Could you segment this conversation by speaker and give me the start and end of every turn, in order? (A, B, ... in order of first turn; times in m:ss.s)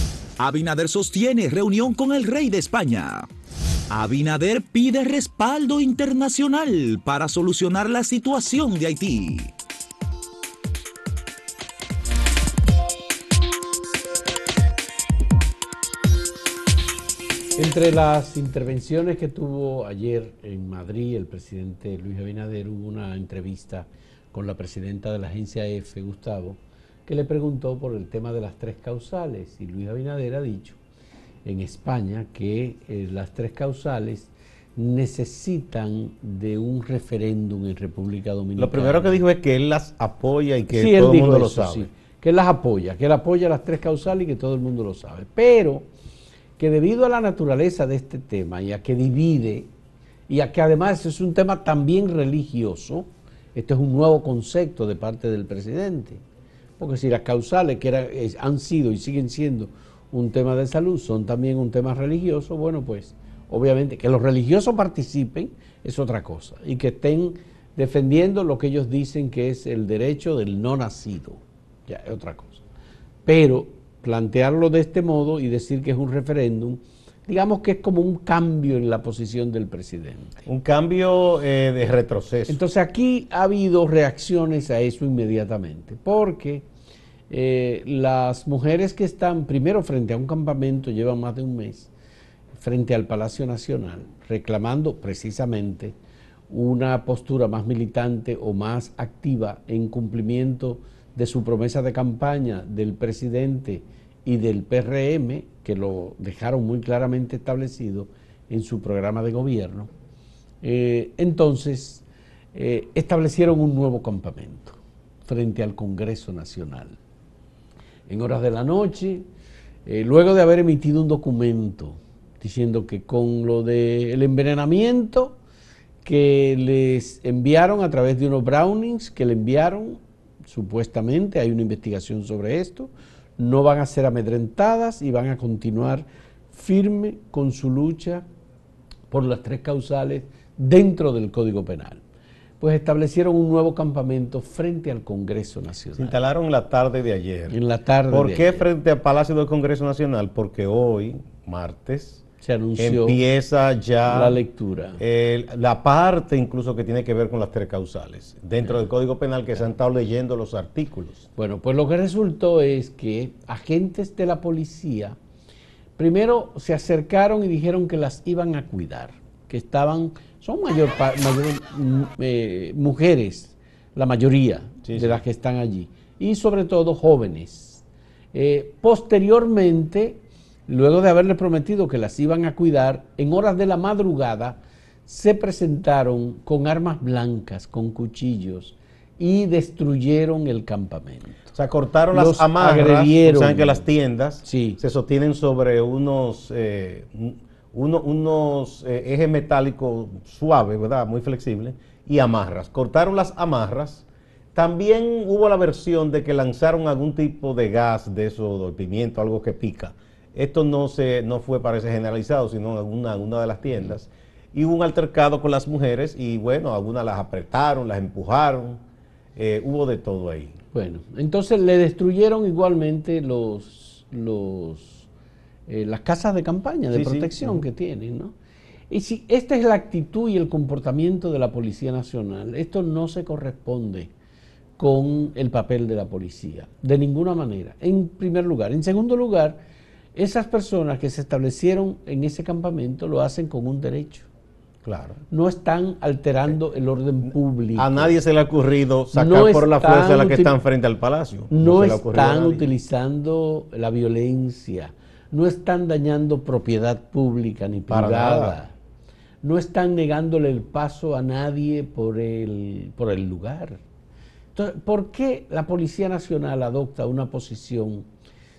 0:00.4-0:03.3 A
0:03.9-0:09.5 A
0:17.6-0:30.8 B
0:31.4-0:39.2 B
0:38.6-0:41.9 C
0:40.7-0:45.9 B
0:46.6-0:49.7 B
0:50.3-0:56.2 B
0:56.8-1:12.6 B
1:13.3-1:20.4 B
1:20.5-1:22.6 C
1:22.5-1:26.7 B
1:27.3-1:31.9 B
1:32.6-1:36.0 B
1:36.5-1:49.9 B
1:50.6-1:52.0 B
1:52.5-1:57.0 B
1:58.1-1:59.3 B
1:59.9-2:05.4 B
2:06.0-2:18.2 B
2:19.1-2:22.0 B
2:22.6-2:26.2 B
2:26.0-2:27.6 C
2:27.5-2:28.6 B
2:28.1-2:32.2 C
2:32.4-2:33.2 B
2:32.8-2:34.4 C
2:34.1-2:35.0 B
2:35.0-2:41.3 C
2:41.4-2:45.2 B
2:46.0-3:11.5 B
2:54.8-2:55.2 C
3:11.5-3:38.8 C
3:12.1-3:13.8 B
3:14.4-3:14.8 B
3:39.4-3:40.6 C
3:40.7-3:45.1 B
3:45.7-3:48.3 B
3:46.9-3:47.6 C
3:48.9-3:54.1 B
3:54.8-3:59.6 B
4:00.2-4:04.3 B
4:04.8-4:05.2 C
4:05.3-4:08.1 B
4:07.8-4:12.7 C
4:09.1-4:10.5 B
4:11.5-4:18.7 B
4:17.9-4:18.6 C
4:19.4-4:23.8 B
4:24.6-4:28.1 B